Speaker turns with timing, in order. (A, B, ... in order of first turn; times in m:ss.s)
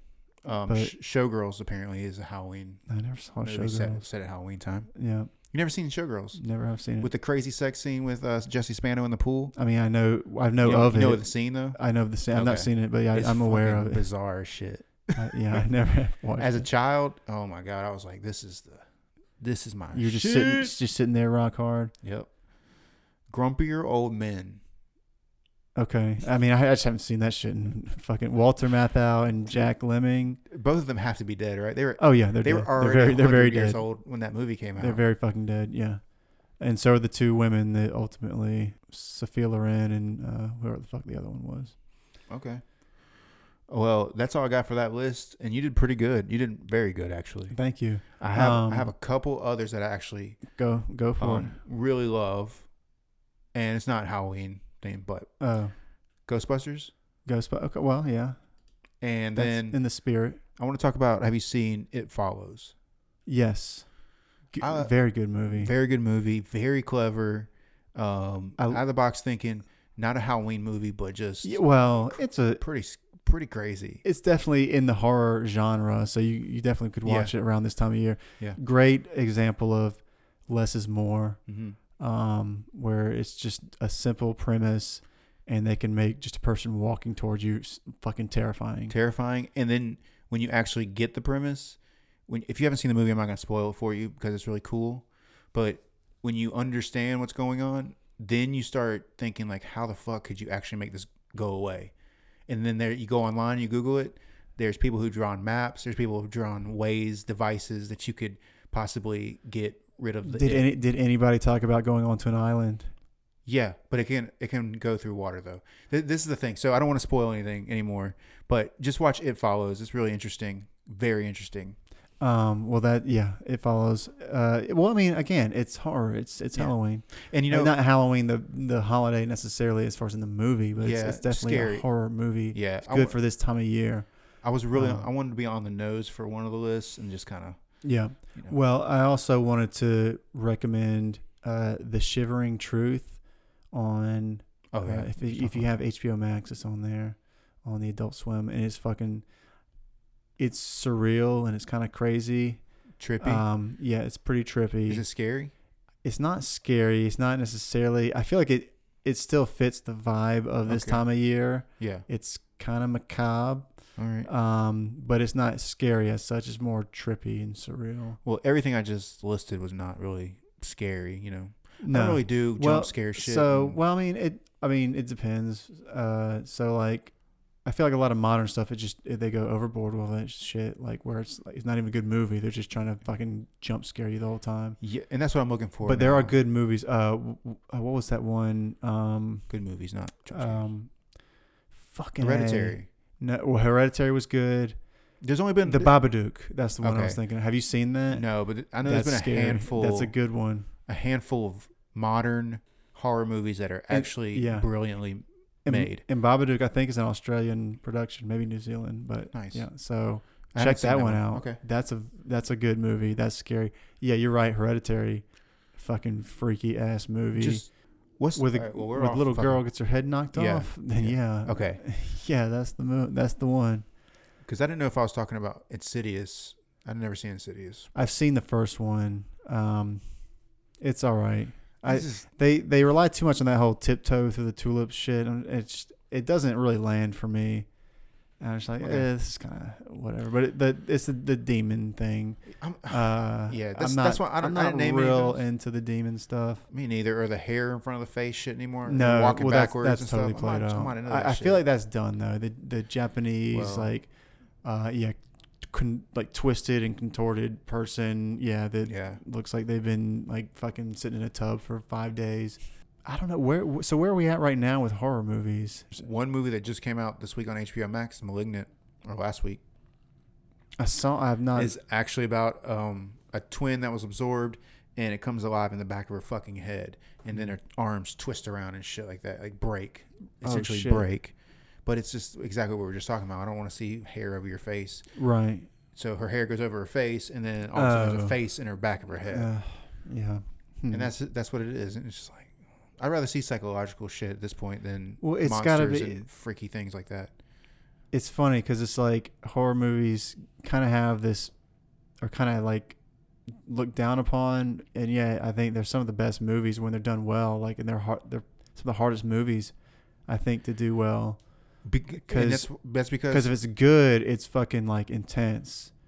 0:00.4-0:02.9 A
0:00.7-0:00.9 B
0:02.9-0:04.0 B
0:03.4-0:04.9 A
0:05.0-0:05.3 B
0:05.4-0:06.4 A
0:06.3-0:07.1 B
0:07.0-0:09.5 A
0:09.6-0:14.0 B
0:10.6-0:11.8 A
0:12.3-0:15.2 A
0:15.2-0:16.7 B
0:16.4-0:18.9 A
0:19.4-0:20.7 A
0:19.9-0:21.9 B
0:22.0-0:22.3 A
0:23.3-0:24.6 A
0:25.8-0:30.4 B
0:30.5-0:35.0 A
0:32.0-0:33.8 B
0:34.8-0:41.7 B
0:42.3-0:42.6 A
0:43.7-0:47.6 A
0:47.5-0:48.9 B
0:48.1-0:50.4 A
0:50.5-0:51.6 B
0:51.2-0:52.7 A
0:53.5-0:55.3 A
0:55.4-0:55.7 B
0:56.3-0:56.9 A
0:57.3-0:58.4 B
0:59.0-0:59.8 A
0:59.4-1:00.4 B
1:00.6-1:02.7 A
1:03.3-1:03.9 B
1:04.5-1:05.7 B
1:04.6-1:05.0 A
1:05.5-1:14.0 A
1:11.4-1:12.6 B
1:14.0-1:21.4 B
1:17.0-1:17.3 A
1:21.5-1:21.8 A
1:22.0-1:29.0 B
1:28.9-1:41.9 A
1:42.5-1:50.7 A
1:50.2-1:52.9 B
1:53.4-2:01.8 A
2:02.2-2:14.1 B
2:06.6-2:07.7 A
2:10.8-2:11.9 A
2:12.5-2:13.2 A
2:14.4-2:17.8 A
2:14.7-2:15.0 B
2:17.8-2:23.2 B
2:23.7-2:29.2 B
2:24.7-2:25.7 A
2:30.4-2:32.6 B
2:33.0-2:33.4 A
2:33.2-2:35.0 B
2:34.9-2:35.5 A
2:36.0-2:43.7 B
2:40.7-2:41.0 A
2:41.6-2:42.0 A
2:44.0-2:44.3 A
2:44.2-2:48.2 B
2:48.2-2:53.8 A
2:51.8-3:04.8 B
3:04.8-3:06.4 A
3:05.8-3:09.5 B
3:09.5-3:10.7 A
3:10.3-3:10.9 B
3:11.7-3:14.8 B
3:12.2-3:12.9 A
3:15.2-3:15.9 A
3:15.6-3:18.3 B
3:16.8-3:17.2 A
3:18.1-3:20.1 A
3:18.8-3:20.7 B
3:20.9-3:26.0 A
3:23.9-3:24.7 B
3:25.6-3:37.8 B
3:29.3-3:29.7 A
3:30.5-3:31.6 A
3:37.4-3:39.6 A
3:38.3-3:43.8 B
3:40.3-3:41.8 A
3:44.4-3:47.9 A
3:48.0-3:50.1 B
3:50.8-3:57.7 B
3:51.8-3:52.3 A
3:58.4-4:06.6 B
3:58.8-3:59.1 A
4:02.6-4:05.4 A
4:06.7-4:11.6 A
4:08.9-4:14.1 B
4:13.5-4:13.9 A
4:14.6-4:25.9 B
4:18.8-4:19.2 A
4:25.9-4:29.6 A
4:30.8-4:31.7 B
4:31.6-4:45.0 A
4:40.4-4:41.0 B
4:45.1-4:45.7 B
4:45.9-4:49.5 A
4:47.7-4:48.4 B
4:49.3-4:51.1 B
4:50.9-4:57.3 A
4:55.2-4:56.3 B
4:58.1-5:01.5 B
5:02.2-5:03.0 B
5:03.6-5:09.7 B
5:10.3-5:11.4 B
5:11.8-5:13.5 A
5:12.3-5:12.7 B
5:13.3-5:15.9 B